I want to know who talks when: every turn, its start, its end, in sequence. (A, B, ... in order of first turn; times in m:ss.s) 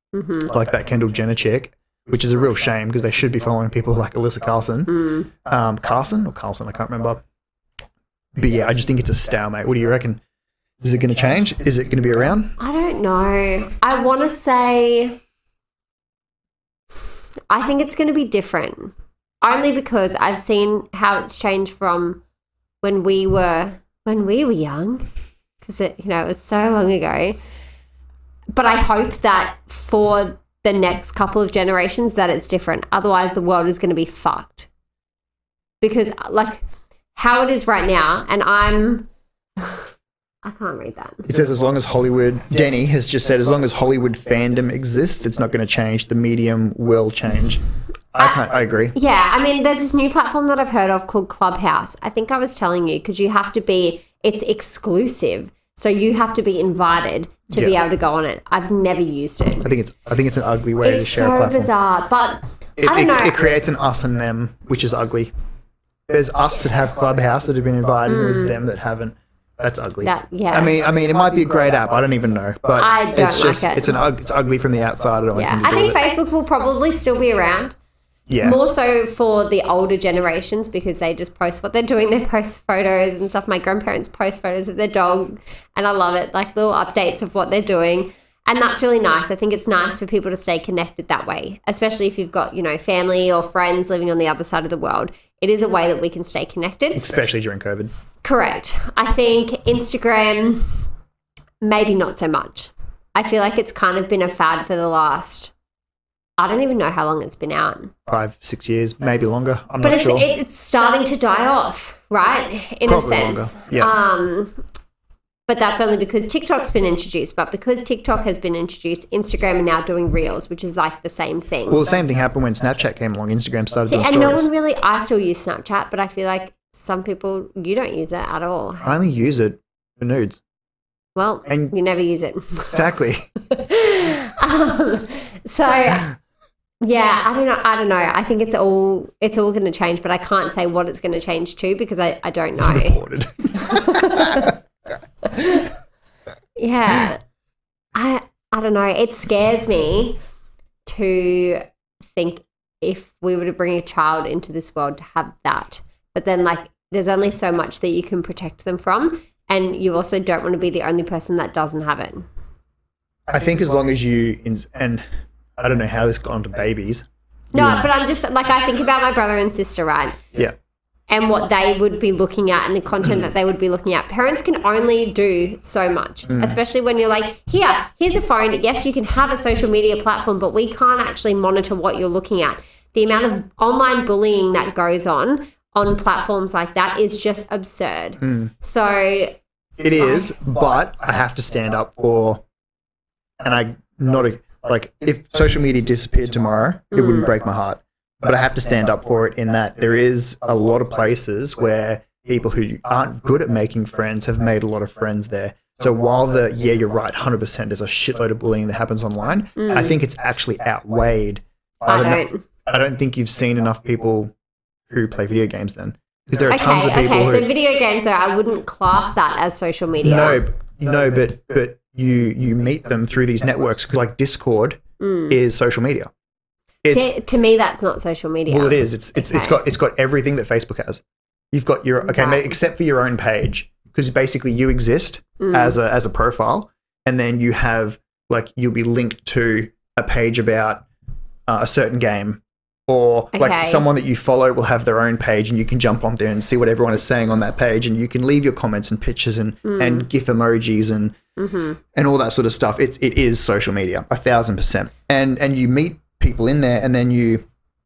0:00.1-0:00.5 A
0:00.4-0:07.2 B
0:04.9-0:05.3 A
0:08.4-0:10.2 B
0:10.8-0:12.6 B
0:12.6-0:15.2 A
0:17.5-0:22.2 A
0:22.8-0:25.1 A
0:25.6-0:27.4 A
0:28.5-0:34.7 A
0:35.8-0:36.6 A
0:37.1-0:39.1 A
0:40.4-0:41.2 A
0:41.2-0:47.6 B
0:48.1-0:48.9 B
0:48.9-0:59.7 A
0:59.6-1:01.7 B
1:00.8-1:03.5 A
1:02.8-1:05.3 B
1:06.1-1:16.0 B
1:08.1-1:08.5 A
1:10.0-1:10.7 A
1:12.8-1:14.0 A
1:15.4-1:17.7 A
1:18.3-1:18.6 B
1:18.4-1:37.0 A
1:36.9-1:37.9 B
1:38.2-1:40.8 A
1:41.6-1:45.5 A
1:46.4-1:47.9 A
1:48.1-1:50.3 B
1:49.8-1:54.6 A
1:52.9-1:53.9 B
1:55.5-2:01.9 A
2:01.7-2:04.5 B
2:03.9-2:08.9 A
2:08.8-2:10.4 B
2:11.2-2:12.8 A
2:11.5-2:11.7 B
2:12.7-2:13.3 B
2:13.5-2:16.1 A
2:16.8-2:23.0 A
2:22.6-2:24.5 B
2:23.6-2:24.5 A
2:25.2-2:25.6 A
2:26.6-2:27.2 A
2:27.9-2:30.2 A
2:30.9-2:31.6 A
2:32.1-2:42.2 A
2:43.3-2:45.0 B
2:45.6-2:47.9 B
2:47.5-2:50.2 A
2:51.1-3:09.4 A
2:56.3-2:56.6 B
3:08.2-3:08.5 B
3:09.8-3:12.4 B
3:10.0-3:10.3 A
3:13.4-3:34.3 B
3:16.9-3:17.3 A
3:29.6-3:29.9 A
3:31.9-3:32.4 A
3:34.9-3:37.5 B
3:36.5-3:40.4 A
3:40.0-3:46.1 B
3:45.0-3:45.4 A
3:46.8-3:47.1 B
3:46.9-3:49.6 A
3:48.5-4:00.9 B
3:52.0-3:52.5 A
3:55.4-3:55.8 A
4:01.5-4:11.2 B
4:03.3-4:03.9 A
4:09.6-4:10.1 A
4:11.4-4:11.8 A
4:11.9-4:17.4 B